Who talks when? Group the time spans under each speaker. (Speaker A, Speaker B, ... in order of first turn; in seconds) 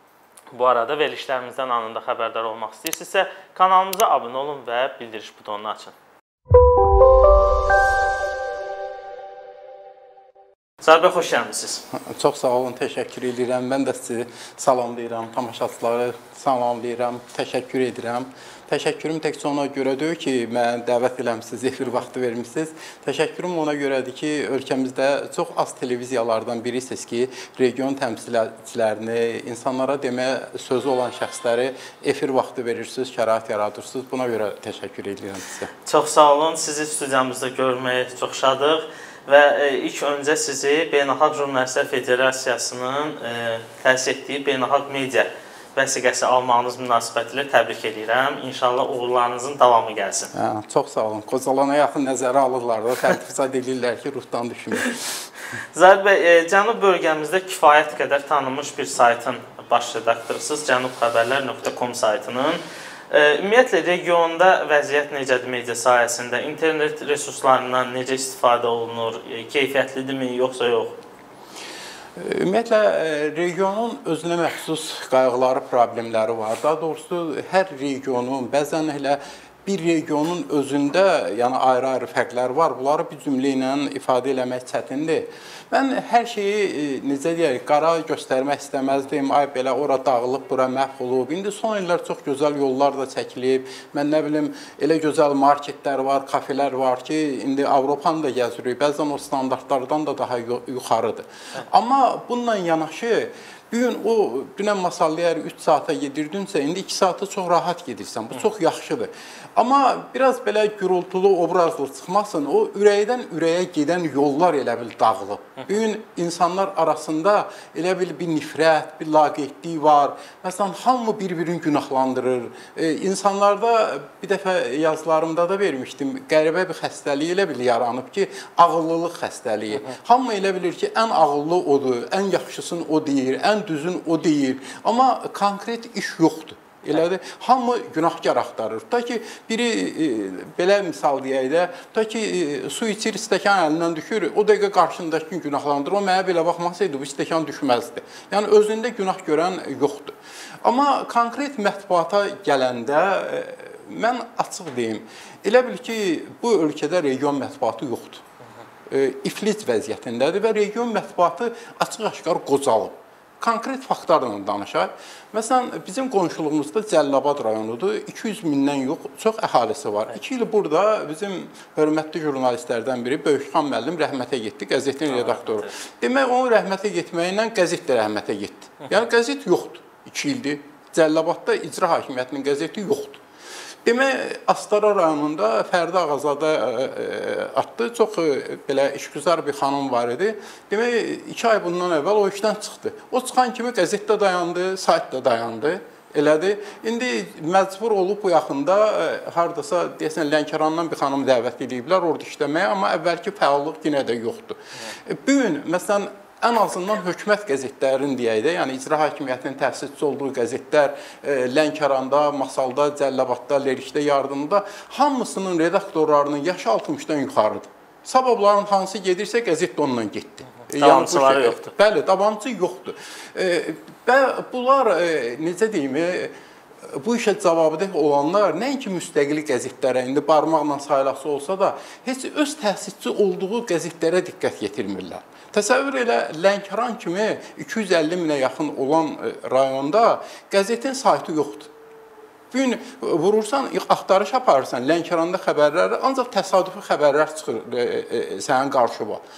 Speaker A: 0.5-6.0, 10.8-11.8, 35.9-50.3, 55.7-62.6, 63.1-71.0, 175.1-175.7, 220.7-221.7
Speaker B: 11.9-35.7, 50.3-55.3, 72.2-158.2, 158.9-183.2, 183.8-241.7, 242.5-249.2